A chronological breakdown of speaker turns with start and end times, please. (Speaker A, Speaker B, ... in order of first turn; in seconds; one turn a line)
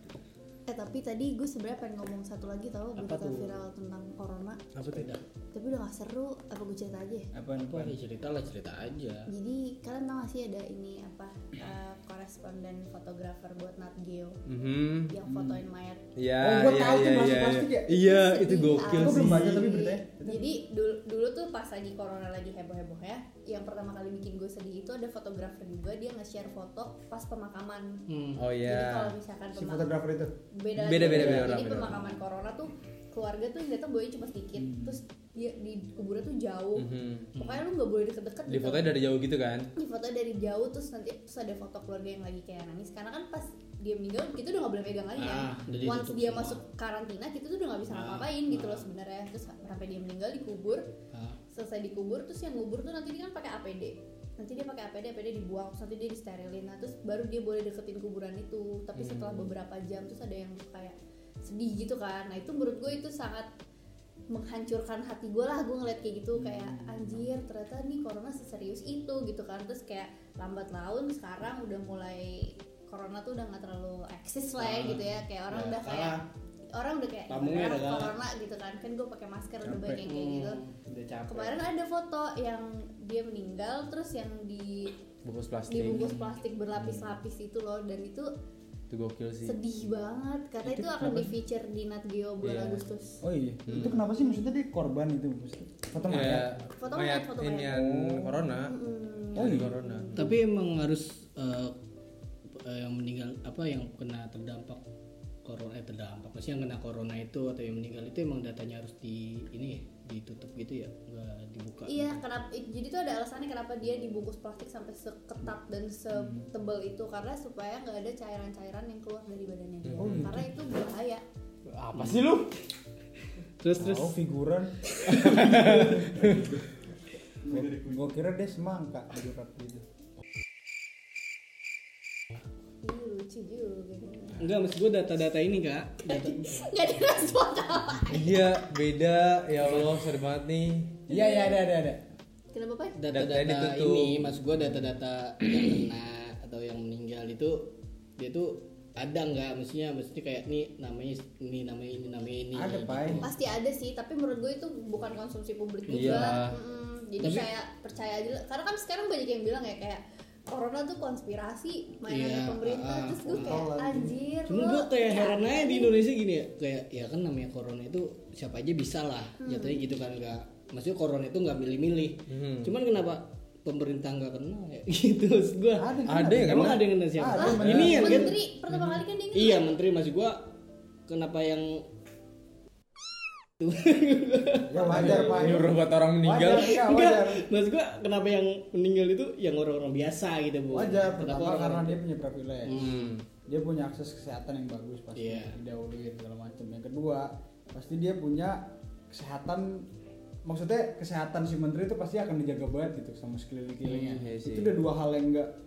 Speaker A: 0.7-4.7
Speaker B: 3.0-3.6
Speaker B: 4.7-5.2
Speaker C: 4.8-5.0
Speaker A: 5.5-7.3
Speaker D: 7.3-8.0
Speaker B: 7.5-9.3
Speaker A: 9.3-14.4
Speaker C: 14.4-15.1
Speaker A: 15.1-16.0
Speaker D: 15.3-15.6
Speaker C: 16.1-19.7
Speaker D: 16.4-18.2
Speaker A: 17.9-28.1
Speaker D: 18.9-20.4
Speaker B: 28.1-28.4
Speaker C: 28.4-29.1
Speaker A: 28.6-29.9
Speaker D: 29.6-30.4
Speaker A: 30.5-38.9
Speaker C: 30.8-32.1
Speaker D: 30.9-31.6
Speaker D: 34.6-35.0
Speaker C: 36.8-37.3
Speaker B: 37.3-37.6
Speaker C: 38.5-39.7
Speaker A: 39.7-50.9
Speaker B: 45.2-46.6
Speaker B: 47.9-48.9
Speaker B: 51.1-51.4
Speaker A: 51.5-63.5
Speaker C: 59.0-59.5
Speaker A: 64.3-76.2
Speaker D: 66.4-67.3
Speaker B: 74.6-76.2
Speaker A: 76.7-80.6
Speaker B: 77.3-78.1
Speaker D: 79.6-80.0
Speaker B: 80.0-81.6
Speaker A: 81.3-84.9
Speaker C: 85.2-86.2
Speaker A: 85.7-88.3
Speaker C: 88.9-89.6
Speaker A: 89.4-93.2
Speaker D: 90.6-91.3
Speaker C: 92.4-92.9
Speaker D: 93.2-96.6
Speaker C: 93.7-94.0
Speaker A: 93.8-94.4
Speaker C: 96.1-98.8
Speaker A: 96.7-97.8
Speaker D: 97.7-98.5
Speaker A: 98.6-100.2
Speaker C: 99.3-100.2
Speaker D: 99.4-99.7
Speaker B: 100.1-101.8
Speaker B: 102.5-104.8
Speaker B: 105.4-112.2
Speaker A: 111.9-121.2
Speaker D: 116.2-116.4
Speaker C: 119.9-120.5
Speaker D: 120.0-120.4
Speaker C: 121.7-122.6
Speaker B: 121.9-122.3
Speaker B: 123.6-124.2
Speaker D: 123.8-124.9
Speaker B: 124.9-126.6
Speaker C: 125.0-126.6
Speaker D: 125.8-126.6
Speaker D: 127.4-129.8
Speaker A: 132.8-134.5
Speaker B: 134.4-136.7
Speaker A: 136.1-138.4
Speaker C: 138.1-141.0
Speaker B: 139.6-140.0
Speaker D: 141.1-142.0
Speaker A: 141.1-141.6
Speaker A: 142.5-143.0
Speaker B: 143.0-153.3
Speaker C: 143.1-144.4
Speaker D: 152.5-153.3
Speaker A: 153.2-165.9
Speaker C: 155.9-156.6
Speaker B: 155.9-156.4
Speaker B: 157.2-157.5
Speaker B: 162.1-163.6
Speaker D: 163.3-164.2
Speaker B: 164.5-180.5
Speaker A: 169.4-169.8
Speaker C: 172.3-172.7
Speaker D: 175.8-178.4
Speaker C: 176.1-176.9
Speaker A: 177.3-179.6
Speaker C: 177.5-178.1
Speaker B: 181.1-181.9
Speaker B: 183.6-185.5
Speaker D: 184.7-187.5
Speaker C: 184.7-186.8
Speaker B: 186.5-192.0
Speaker D: 190.7-199.9
Speaker B: 192.7-193.2
Speaker C: 192.7-193.2
Speaker B: 195.1-195.6
Speaker D: 200.4-205.5
Speaker B: 203.9-204.2
Speaker C: 204.0-204.8